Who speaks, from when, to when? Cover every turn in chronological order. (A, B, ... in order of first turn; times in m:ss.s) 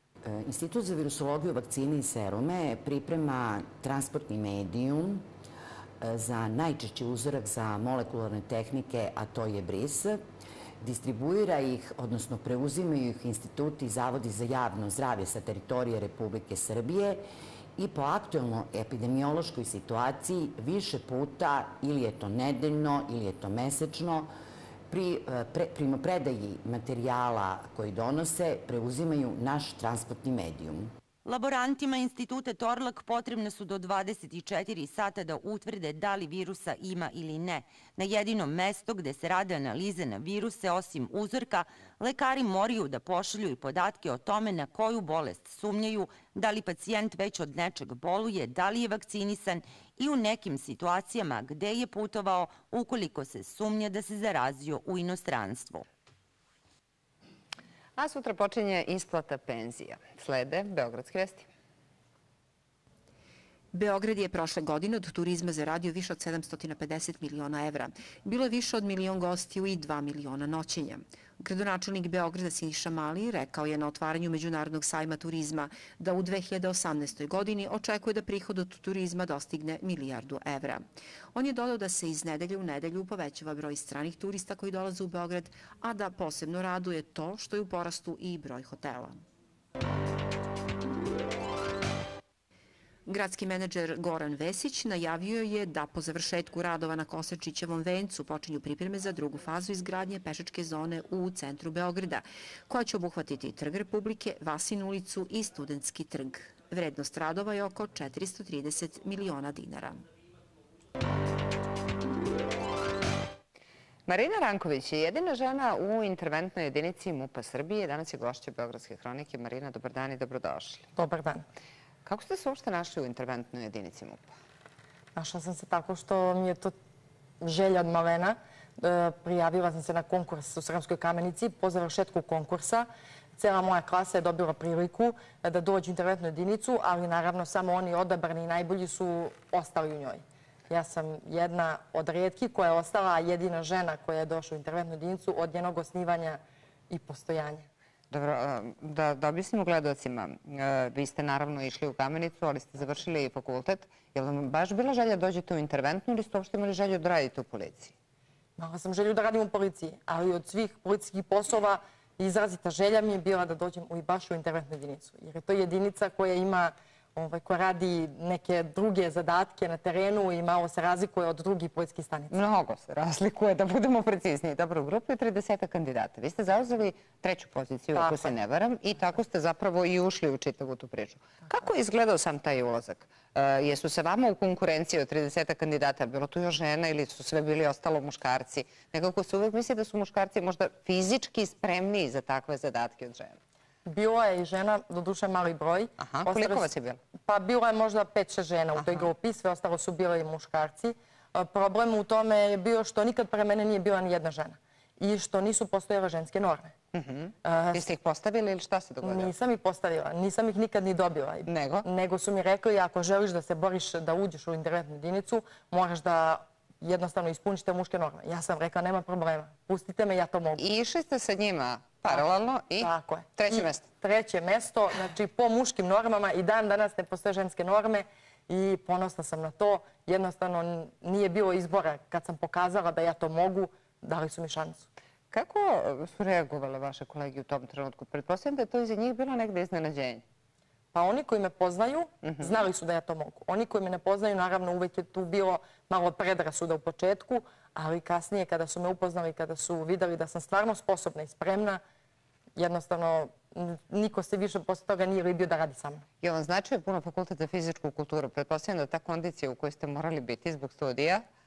0:00.2-0:05.2 A
0:06.0-0:10.2 A
0:10.8-0:17.2 A
0:17.8-0:24.3 A
0:24.9-0:30.9 A
0:31.2-0:55.8 B
0:58.0-1:01.5 C
1:03.7-1:29.2 D
1:33.0-1:50.0 D
1:54.1-2:00.9 C
2:01.0-2:01.4 E
2:02.0-2:04.4 C
2:05.1-2:06.7 E
2:07.4-2:27.7 E
2:28.1-2:37.9 C
2:38.6-2:52.4 E
2:52.3-3:13.4 C
2:57.9-2:58.3 E
3:13.8-3:16.7 E
3:16.0-3:17.0 C
3:17.3-3:26.7 E
3:18.8-3:19.1 C
3:26.9-3:29.3 C
3:27.4-3:27.8 E
3:29.0-3:40.6 E
3:31.4-3:31.8 C
3:40.6-3:43.8 C
3:42.1-3:54.9 E
3:55.3-4:00.2 C
4:00.9-4:11.8 E
4:02.2-4:02.6 C
4:12.6-4:16.0 E
4:16.2-4:21.2 C